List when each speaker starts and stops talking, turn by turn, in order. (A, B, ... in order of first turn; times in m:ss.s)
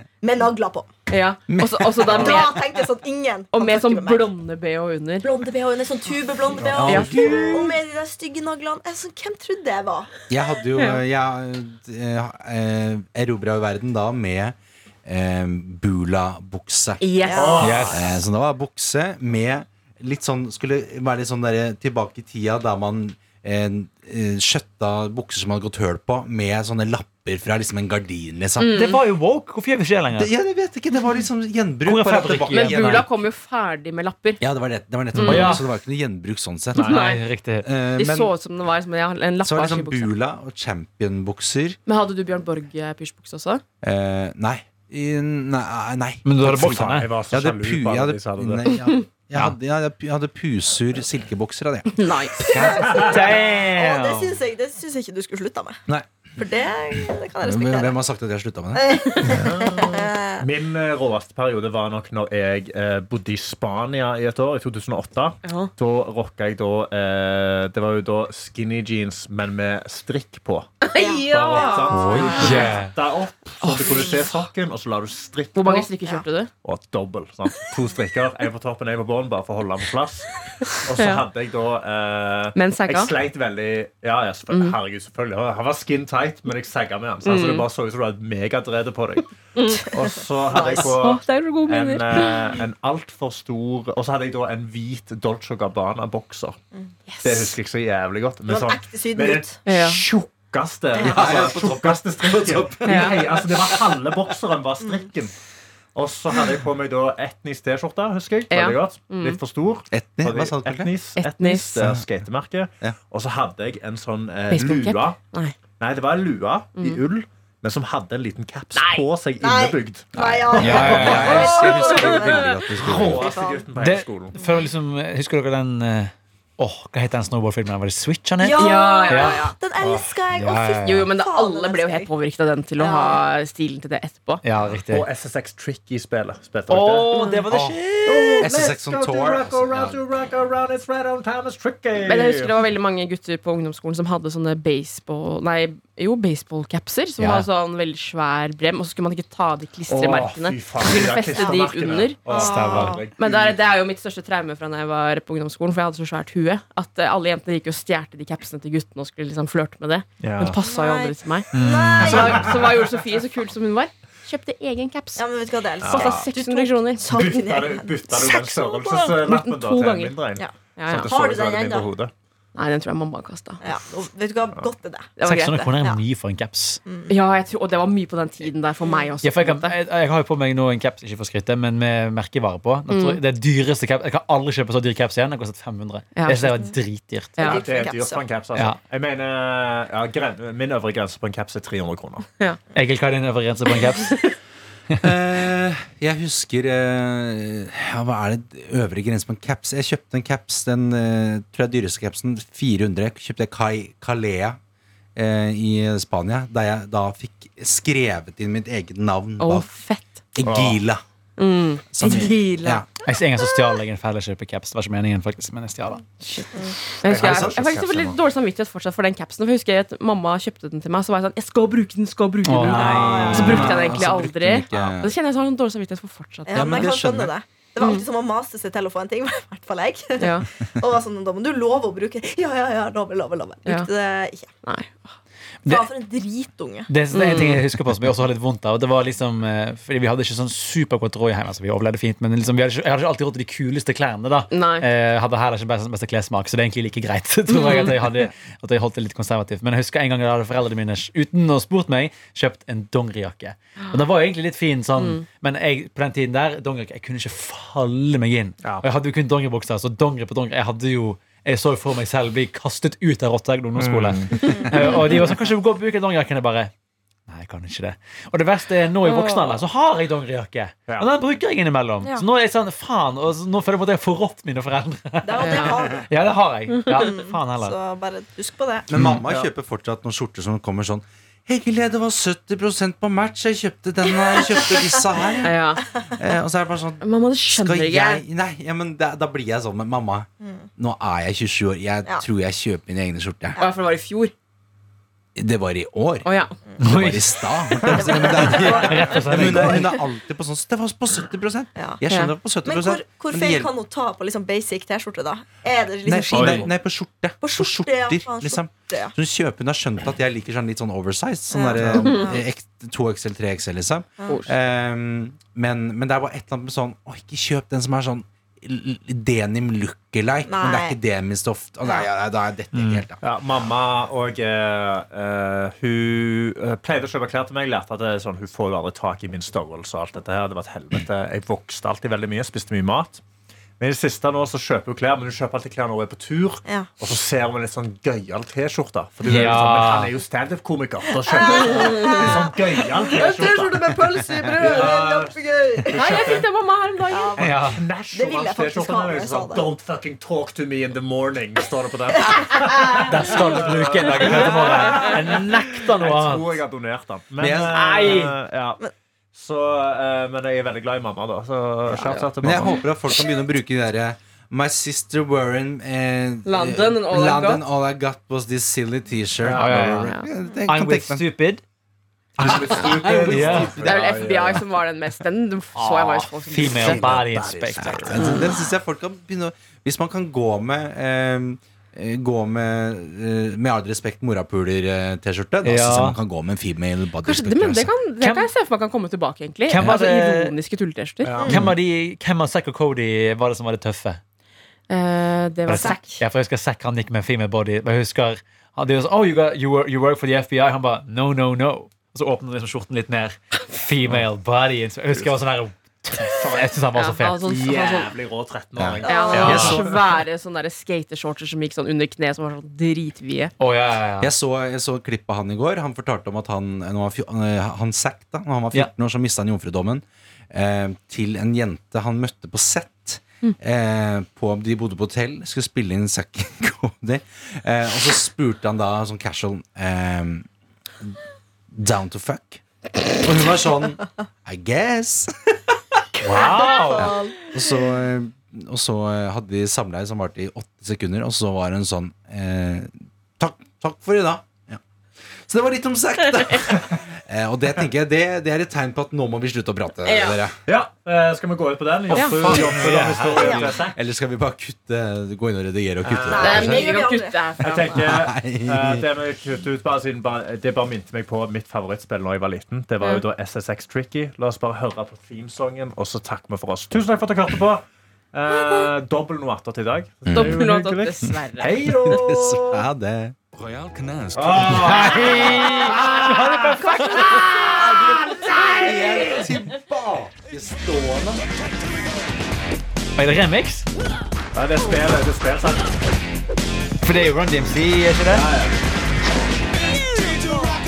0:00.2-0:00.9 A
0:01.1-0:02.6 B
0:01.5-0:02.4 C
0:02.1-0:04.3 A
0:03.5-0:05.3 B
0:05.2-0:10.1 A
0:06.6-0:07.4 D
0:06.7-0:07.6 C
0:06.9-0:07.8 B
0:10.3-0:17.0 C
0:10.8-0:11.0 B
0:17.0-0:17.9 B
0:17.2-0:17.8 A
0:17.3-0:18.0 D
0:17.6-0:18.1 E
0:17.8-0:28.7 C
0:28.6-0:29.0 B
0:28.7-0:30.3 E
0:30.1-0:33.1 C
0:31.8-0:33.1 E
0:32.5-0:34.4 B
0:34.4-0:36.9 C
0:35.1-0:35.6 B
0:35.2-0:35.6 E
0:36.8-0:37.0 D
0:36.8-0:37.7 E
0:36.8-0:37.2 B
0:37.6-0:38.3 C
0:38.0-0:40.1 B
0:39.4-0:41.8 C
0:41.9-0:43.6 B
0:43.8-0:53.2 C
0:46.2-0:47.1 E
0:46.8-0:48.7 D
0:52.0-0:52.6 B
0:52.5-0:55.8 A
0:52.8-0:54.4 E
0:55.9-0:56.4 C
0:56.4-0:58.0 A
0:57.0-0:59.3 C
0:58.8-1:00.4 A
0:59.3-1:10.8 D
1:05.4-1:05.7 B
1:10.8-1:12.7 B
1:11.0-1:12.7 A
1:11.3-1:15.8 D
1:11.9-1:13.0 E
1:13.6-1:14.2 B
1:13.9-1:14.1 A
1:15.6-1:16.5 B
1:15.7-1:16.2 A
1:16.6-1:36.6 D
1:20.6-1:21.2 B
1:22.6-1:23.1 B
1:24.5-1:24.8 B
1:27.2-1:27.7 B
1:29.6-1:29.9 B
1:30.5-1:30.9 A
1:30.6-1:32.4 B
1:37.1-1:37.5 B
1:37.2-1:45.3 D
1:38.5-1:39.6 A
1:39.7-1:40.0 B
1:41.0-1:44.0 C
1:41.0-1:41.3 A
1:42.9-1:43.1 B
1:46.0-1:55.2 D
1:48.5-1:49.4 B
1:49.9-1:50.9 C
1:51.2-1:51.7 B
1:51.8-1:52.0 C
1:54.5-1:55.6 B
1:55.8-2:01.3 D
1:58.7-1:59.1 B
1:59.4-2:03.7 A
2:00.1-2:03.3 C
2:00.5-2:01.7 E
2:01.2-2:02.5 B
2:02.7-2:09.5 E
2:02.7-2:04.4 D
2:08.4-2:12.1 A
2:08.5-2:09.6 B
2:09.8-2:10.2 D
2:10.3-2:11.1 E
2:10.8-2:14.4 B
2:12.8-2:13.2 A
2:14.4-2:15.1 E
2:14.6-2:17.1 D
2:16.7-2:18.5 E
2:17.1-2:17.5 B
2:17.5-2:17.8 C
2:18.0-2:22.6 D
2:18.4-2:20.0 C
2:22.0-2:45.2 B
2:27.2-2:27.5 E
2:29.9-2:33.6 D
2:31.0-2:31.6 A
2:32.3-2:33.0 A
2:32.3-2:33.0 E
2:40.2-2:40.6 D
2:40.6-2:42.7 A
2:41.5-2:42.5 E
2:42.0-2:42.7 D
2:45.2-2:49.1 A
2:45.8-2:46.3 D
2:45.8-2:50.2 B
2:47.1-2:52.1 D
2:50.8-2:51.1 B
2:51.1-2:51.9 A
2:52.6-2:53.6 B
2:53.6-2:55.2 A
2:55.2-2:55.8 B
2:55.2-2:56.8 E
2:56.9-2:57.1 A
2:57.1-2:59.8 B
2:59.2-3:07.5 E
3:02.9-3:03.2 B
3:06.2-3:06.6 B
3:07.4-3:07.6 B
3:07.4-3:08.3 A
3:07.4-3:12.3 D
3:12.7-3:14.2 E
3:13.7-3:14.4 B
3:15.0-3:24.6 C
3:25.2-3:29.7 C
3:29.4-3:30.2 B
3:30.4-3:31.0 C
3:30.4-3:30.8 D
3:31.4-3:32.8 B
3:31.9-3:32.9 C
3:33.0-3:36.0 E
3:36.2-3:46.9 B
3:37.0-3:38.0 D
3:37.2-3:37.9 C
3:42.4-3:43.8 E
3:42.6-3:44.0 A
3:42.8-3:43.3 D
3:43.3-3:45.1 C
3:46.5-3:54.5 A
3:46.5-3:47.3 C
3:47.8-3:48.0 B
3:50.2-3:50.5 B
3:54.6-3:55.2 B
3:55.6-3:56.9 A
3:56.9-4:26.7 E
3:57.1-3:57.6 B
4:04.5-4:04.9 B
4:07.5-4:08.1 B
4:15.0-4:15.2 B
4:23.8-4:24.6 D
4:24.6-4:24.8 B
4:27.3-4:37.8 E
4:29.1-4:29.6 A
4:35.2-4:36.1 A
4:35.4-4:35.8 B
4:36.7-4:37.1 B
4:36.9-4:38.9 A
4:38.9-4:45.6 C
4:39.0-4:39.5 D
4:44.1-4:45.5 A
4:45.4-4:45.8 B
4:46.1-4:53.6 C
4:47.0-4:48.2 B
4:50.4-4:50.7 A
4:53.6-4:54.3 B
4:55.4-4:56.3 C
4:56.2-4:56.6 B
4:56.8-4:57.5 E
4:56.8-5:03.7 C
4:57.8-5:00.0 A
4:58.5-4:59.9 E
4:59.2-4:59.6 D
5:02.1-5:02.3 B
5:02.6-5:06.7 A
5:06.1-5:23.2 C
5:06.3-5:06.7 D
5:07.4-5:09.1 A
5:11.5-5:12.4 A
5:12.0-5:12.3 B
5:20.5-5:21.0 A
5:22.7-5:23.1 E
5:23.2-5:33.2 D
5:33.8-5:43.9 D
5:39.3-5:40.1 E
5:41.3-5:46.3 A
5:41.9-5:42.3 B
5:44.3-5:44.7 C
5:44.6-5:46.4 D
5:45.9-5:47.4 B
5:47.1-5:49.7 A
5:47.4-5:47.8 E
5:47.4-5:58.8 D
5:52.2-5:53.2 A
5:53.0-5:56.5 E
5:57.4-5:58.1 C
5:57.7-5:58.3 B
5:59.3-6:02.8 D
6:02.4-6:11.3 C
6:06.5-6:07.6 B
6:09.4-6:10.0 D
6:09.6-6:11.6 E
6:10.0-6:10.3 B
6:12.4-6:14.6 D
6:12.7-6:17.0 B
6:13.2-6:13.9 E
6:15.8-6:18.4 E
6:16.6-6:18.3 D
6:17.8-6:27.9 C
6:18.2-6:18.4 B
6:25.6-6:26.2 E
6:27.2-6:31.4 B
6:28.2-6:28.5 E
6:29.7-6:30.6 E
6:31.2-6:31.8 D
6:31.4-6:31.7 A
6:31.4-6:34.2 E
6:34.9-6:36.2 B
6:35.7-6:47.5 E
6:35.7-6:36.2 A
6:46.4-6:46.7 D
6:46.9-6:48.1 B
6:47.5-6:49.9 D
6:48.8-6:50.0 C
6:49.0-6:49.6 A
6:49.0-6:53.5 B
6:49.3-6:49.8 E
6:53.6-6:54.3 E
6:54.2-7:10.5 C
7:11.7-7:12.6 C
7:13.2-7:15.8 C
7:16.2-7:17.4 A
7:16.2-7:17.2 E
7:17.0-7:24.8 C
7:25.4-7:30.6 C
7:30.0-7:30.4 B
7:30.7-7:34.0 D
7:32.1-7:32.4 B
7:32.1-7:33.6 E
7:32.5-7:32.9 C
7:33.4-7:37.0 C
7:36.0-7:36.9 D
7:36.3-7:37.4 A
7:36.4-7:38.0 B
7:37.6-7:52.8 D
7:38.0-7:39.0 C
7:50.3-7:50.6 C
7:50.3-7:52.2 B
7:51.8-7:56.2 C
7:54.3-7:56.2 D
7:54.6-7:59.5 E
7:57.2-8:01.4 C
8:03.2-8:03.9 E
8:04.5-8:06.0 D
8:07.0-8:08.5 E
8:08.3-8:08.8 D